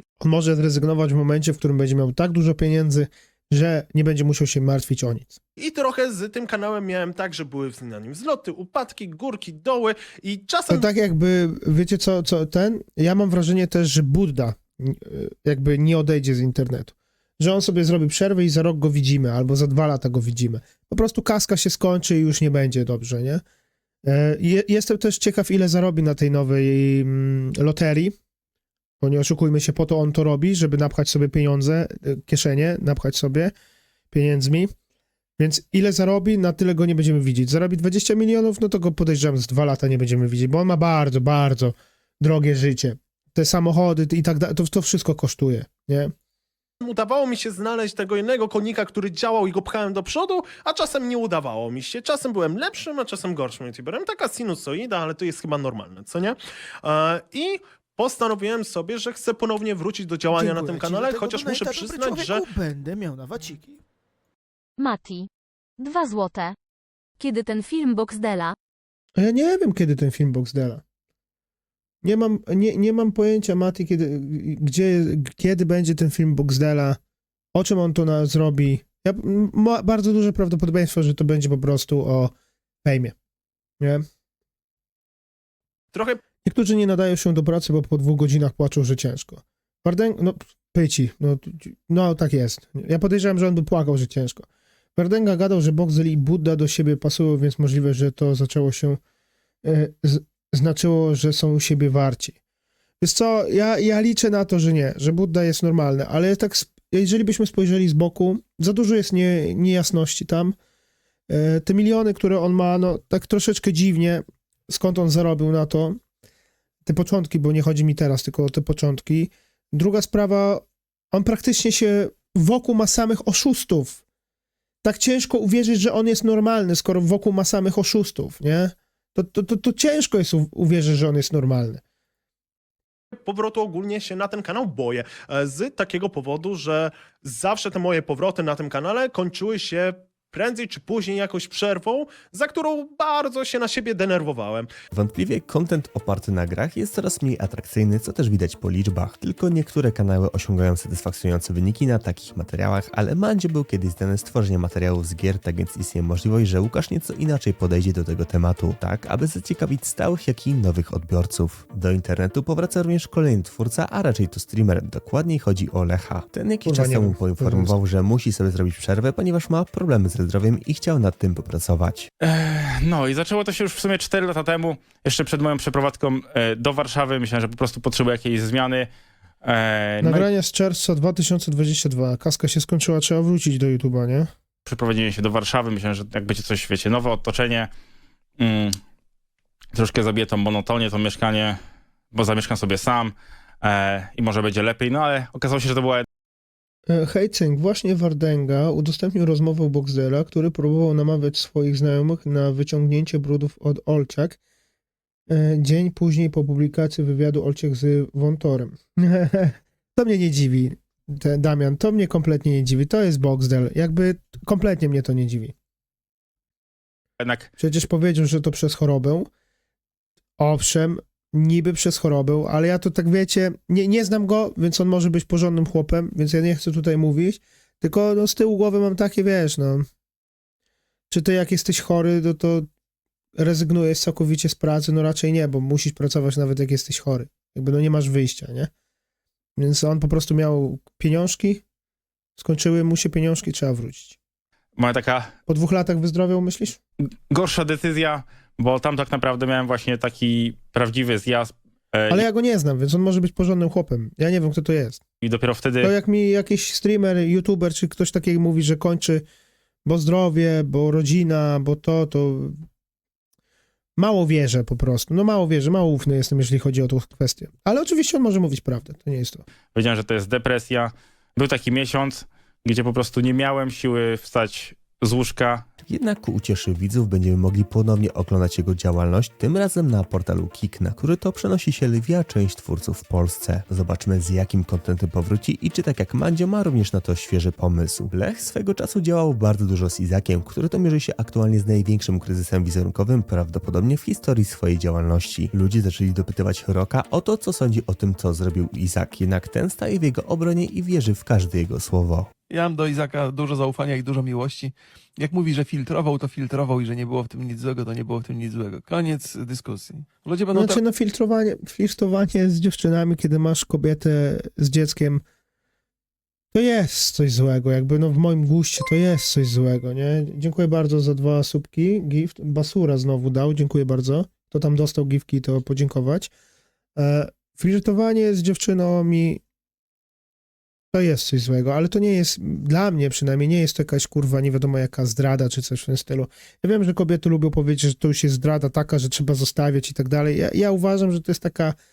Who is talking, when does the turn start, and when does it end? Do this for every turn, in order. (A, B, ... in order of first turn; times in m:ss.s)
0:00.2-0:05.4 A
0:05.6-0:10.9 B
0:10.7-0:23.4 A
0:24.0-0:28.1 A
0:29.0-0:33.5 A
0:34.1-0:34.7 A
0:35.4-0:46.1 A
0:46.8-1:02.5 B
1:00.3-1:03.8 A
1:04.8-1:06.6 C
1:07.2-1:08.6 C
1:09.2-1:10.8 A
1:12.0-1:17.0 A
1:17.5-1:22.3 A
1:22.8-1:23.1 A
1:25.9-1:26.2 B
1:26.4-1:39.0 A
1:39.6-1:42.4 A
1:43.0-1:50.5 A
1:51.3-1:56.0 A
1:56.8-2:04.0 A
2:04.8-2:11.8 A
2:13.1-2:24.7 B
2:24.9-2:52.1 D
2:46.6-2:47.8 A
2:52.2-2:58.9 E
2:59.4-3:00.3 E
3:00.0-3:04.3 A
3:04.6-3:07.7 E
3:08.4-3:08.8 E
3:09.7-3:11.6 E
3:12.1-3:16.0 E
3:16.9-3:24.4 A
3:25.3-3:35.5 A
3:37.2-3:37.5 E
3:37.6-3:39.3 A
3:40.4-3:49.8 A
3:51.1-3:52.7 A
3:53.4-3:58.7 A
3:59.6-4:01.6 A
4:02.4-4:04.2 A
4:04.8-4:05.3 E
4:05.5-4:06.8 A
4:07.3-4:12.2 E
4:12.1-4:15.0 A
4:15.2-4:15.9 E
4:15.8-4:19.2 A
4:19.8-4:22.5 A
4:24.0-4:29.4 A
4:29.7-4:35.6 E
4:35.8-5:02.3 D
5:02.5-5:10.8 F
5:10.5-5:15.2 A
5:16.5-5:26.3 A
5:27.0-5:29.4 A
5:30.9-5:41.7 A